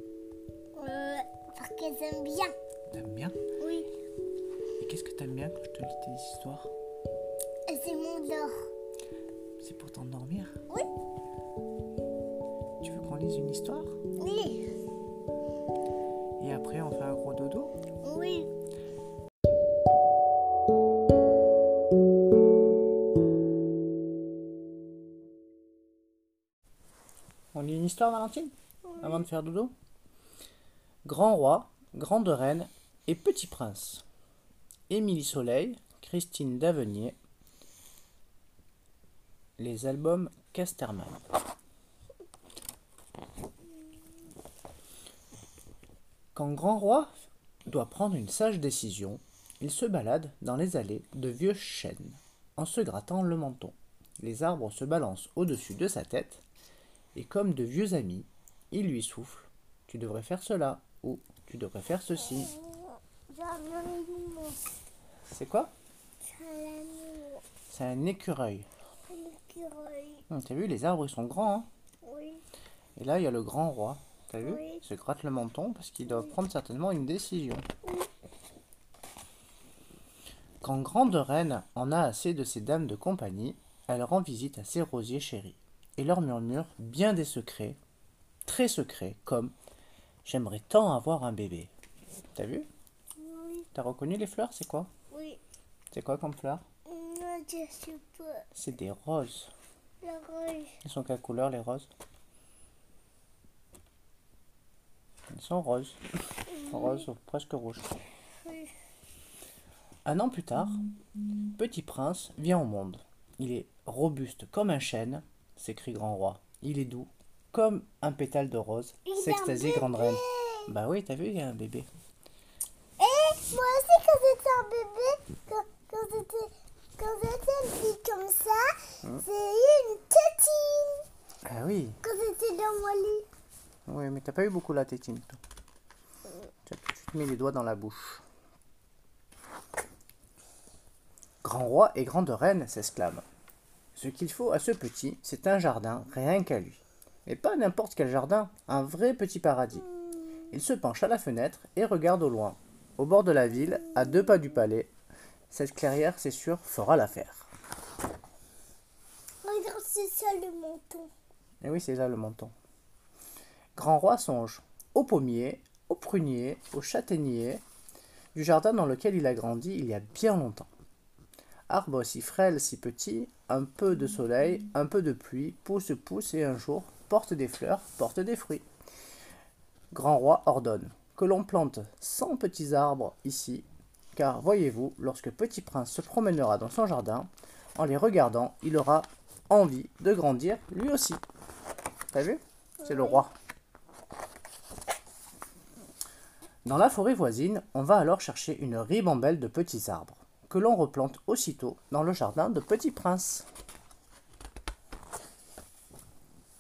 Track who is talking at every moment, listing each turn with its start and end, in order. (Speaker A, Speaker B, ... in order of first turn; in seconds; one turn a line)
Speaker A: 0.8-2.5
Speaker B: 2.9-3.4
Speaker A: 3.6-3.9
Speaker B: 4.8-6.7
Speaker A: 7.7-8.5
Speaker B: 9.6-10.6
Speaker B: 12.8-14.0
Speaker A: 14.2-14.7
Speaker B: 16.4-17.7
Speaker A: 18.0-18.5
Speaker B: 27.5-29.7
Speaker A: 28.9-29.2
Speaker B: 31.0-34.0
Speaker B: 34.9-37.2
Speaker B: 39.6-41.2
Speaker B: 46.4-47.1
Speaker B: 47.7-56.4
Speaker B: 57.1-62.5
Speaker A: 62.2-64.7
Speaker B: 65.3-65.7
Speaker A: 66.2-67.4
Speaker B: 67.7-68.7
Speaker A: 69.1-70.2
Speaker B: 70.3-71.7
Speaker A: 72.0-72.4
Speaker B: 73.0-77.7
Speaker A: 74.4-74.8
Speaker B: 80.6-87.8
Speaker B: 88.5-89.5
Speaker B: 90.2-91.7
Speaker B: 92.3-92.7
Speaker A: 93.2-93.7
Speaker B: 93.7-94.9
Speaker A: 95.1-95.4
Speaker B: 95.9-96.6
Speaker A: 96.9-98.4
Speaker B: 98.5-99.5
Speaker A: 100.0-100.8
Speaker B: 100.8-101.9
Speaker B: 105.3-106.0
Speaker B: 106.6-107.9
Speaker A: 106.7-107.0
Speaker B: 110.0-110.8
Speaker B: 111.6-121.9
Speaker A: 119.1-120.7
Speaker A: 123.0-131.1
Speaker B: 131.5-132.0
Speaker A: 132.0-133.3
Speaker B: 133.9-135.4
Speaker B: 136.7-138.2
Speaker B: 141.4-143.2
Speaker B: 144.0-149.8
Speaker B: 150.5-154.9
Speaker B: 155.5-157.5
Speaker A: 159.4-161.1
Speaker B: 161.6-162.5
Speaker B: 163.8-167.6
Speaker B: 168.3-170.7
Speaker B: 171.7-178.7
Speaker B: 179.9-191.2
Speaker B: 192.1-193.3
Speaker A: 192.8-193.2
Speaker B: 196.7-203.5